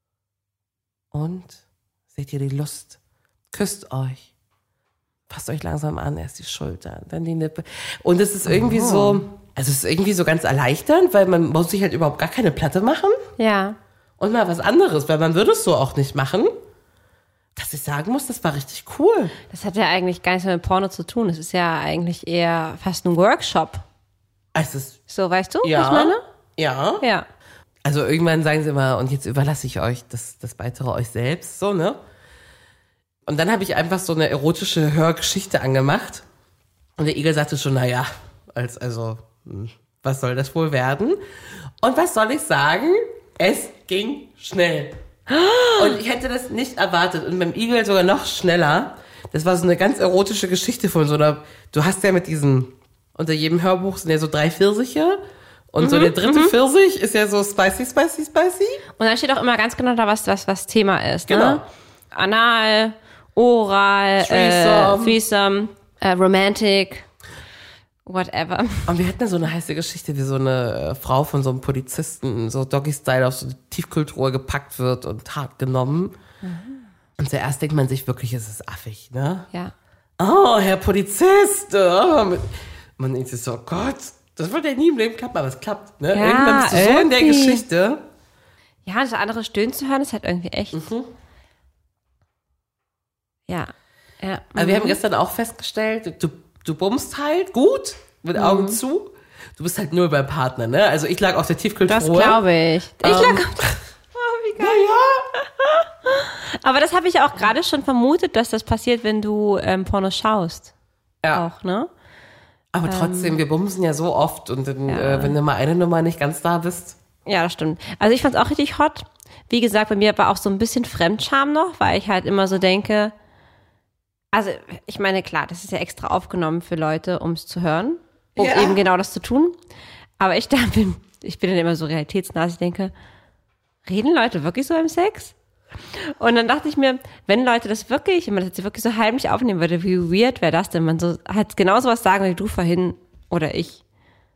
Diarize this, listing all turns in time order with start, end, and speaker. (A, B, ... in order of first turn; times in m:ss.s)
0:01.1-0:01.6 A
0:02.1-0:03.0 A
0:03.5-0:04.2 A
0:05.3-0:13.2 A
0:08.5-0:09.2 B
0:13.4-0:13.8 B
0:14.2-0:16.5 A
0:17.6-0:19.3 A
0:19.5-0:23.8 B
0:24.5-0:25.0 A
0:25.1-0:26.2 B
0:25.6-0:27.0 A
0:27.0-0:27.3 B
0:27.8-0:32.0 A
0:33.2-0:36.2 A
0:37.0-0:41.2 A
0:41.8-0:45.0 A
0:45.3-0:45.9 B
0:45.8-0:55.2 A
0:55.7-0:58.8 A
0:55.8-0:56.5 B
0:59.0-1:07.0 B
1:01.3-1:01.6 A
1:04.2-1:05.2 A
1:08.0-1:08.9 B
1:08.9-1:16.2 A
1:16.4-1:16.8 B
1:17.2-1:19.5 A
1:20.2-1:28.0 A
1:26.1-1:27.6 B
1:28.8-1:30.9 B
1:30.7-1:31.1 A
1:33.5-1:35.0 B
1:34.6-1:42.4 A
1:38.4-1:38.8 B
1:41.9-1:50.7 B
1:43.0-1:43.8 A
1:44.6-1:45.2 A
1:51.3-1:51.9 B
1:52.7-1:57.0 A
1:52.8-1:53.4 B
1:54.9-1:55.4 B
1:57.2-2:03.1 B
2:04.3-2:09.5 B
2:08.4-2:08.8 A
2:10.2-2:12.9 B
2:13.8-2:15.3 B
2:15.9-2:23.8 B